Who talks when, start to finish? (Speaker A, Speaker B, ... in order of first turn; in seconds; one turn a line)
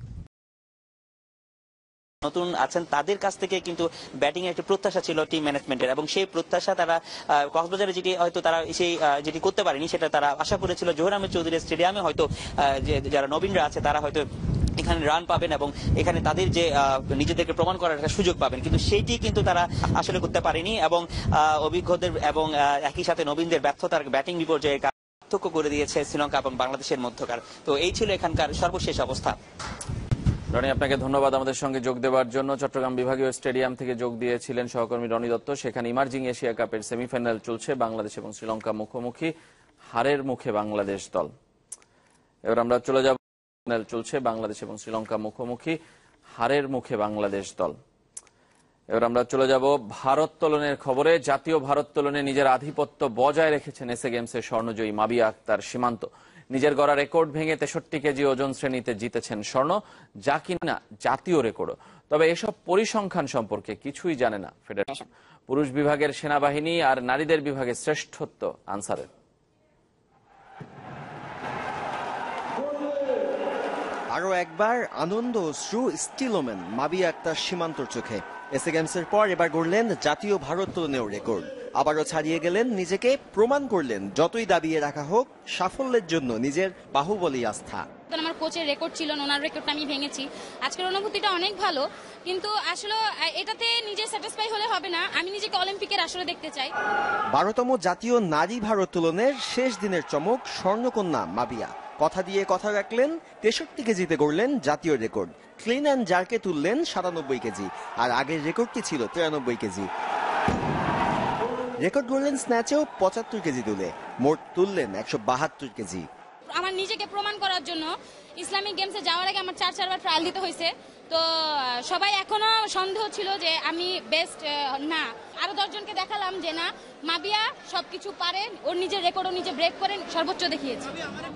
Speaker A: 2.2-14.2
Speaker A: 14.8-29.4
Speaker B: 30.5-39.3
Speaker B: 39.9-41.3
Speaker B: 42.5-45.8
Speaker B: 46.4-47.8
Speaker B: 48.9-69.1
Speaker C: 74.1-87.8
Speaker D: 88.1-96.7
Speaker C: 97.3-109.9
Speaker C: 111.8-116.1
Speaker D: 116.5-131.0